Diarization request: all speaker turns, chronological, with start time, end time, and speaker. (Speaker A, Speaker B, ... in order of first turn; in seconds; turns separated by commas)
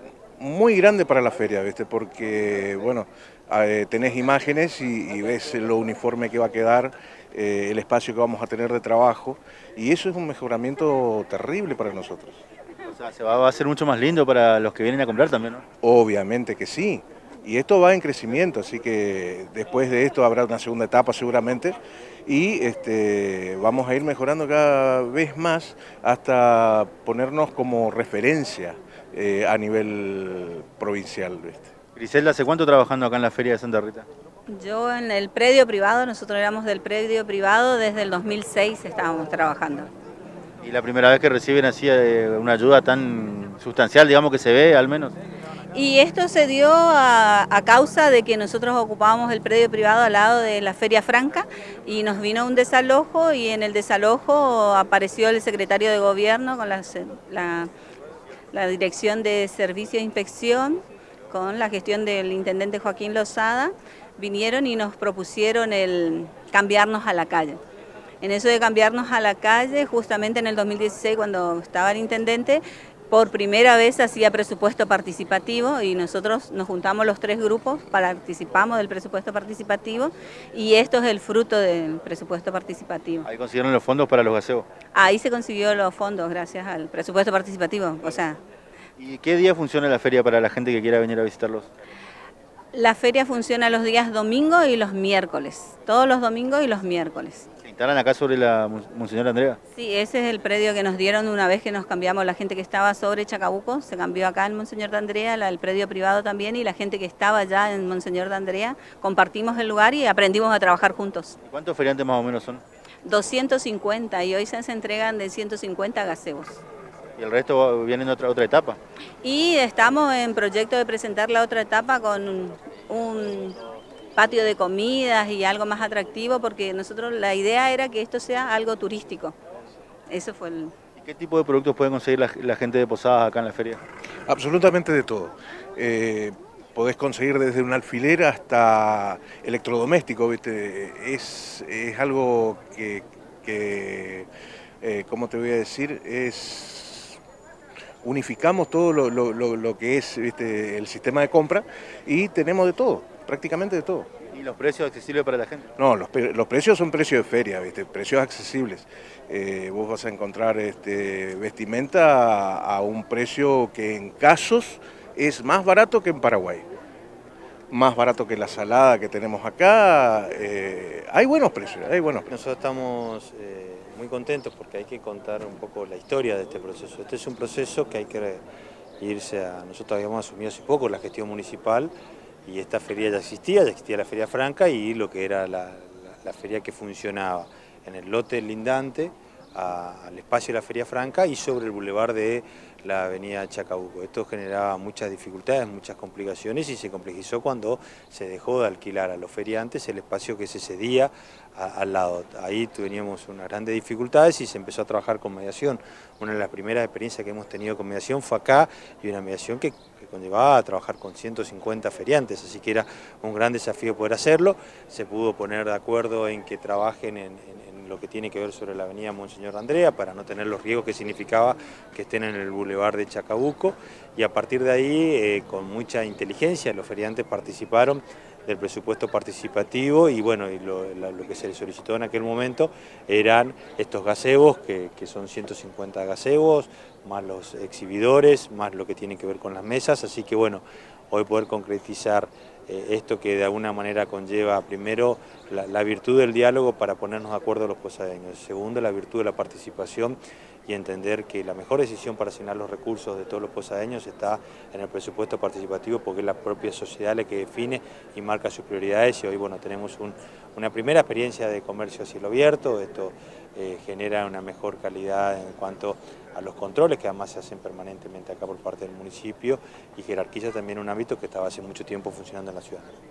Speaker A: 0.4-12.4, Speaker B: 12.9-15.6, Speaker A: 15.8-21.7, Speaker A: 22.2-31.7, Speaker B: 31.9-34.1, Speaker C: 34.5-39.9, Speaker B: 40.6-45.2, Speaker C: 45.7-57.7, Speaker C: 58.5-67.6, Speaker C: 68.2-83.3, Speaker B: 83.2-84.7, Speaker C: 84.9-88.4, Speaker B: 89.0-91.7, Speaker C: 92.7-97.5, Speaker B: 97.6-99.6, Speaker C: 99.8-111.4, Speaker B: 111.4-112.6, Speaker C: 113.0-116.6, Speaker B: 117.2-118.8, Speaker C: 119.2-123.6, Speaker C: 124.2-129.3, Speaker C: 130.1-130.7, Speaker B: 130.9-133.8, Speaker A: 134.3-144.3, Speaker A: 144.8-147.2, Speaker A: 148.0-154.1, Speaker B: 154.3-155.7, Speaker A: 155.8-166.7, Speaker A: 167.7-172.3, Speaker D: 172.3-178.4, Speaker D: 179.0-181.9, Speaker D: 182.4-272.9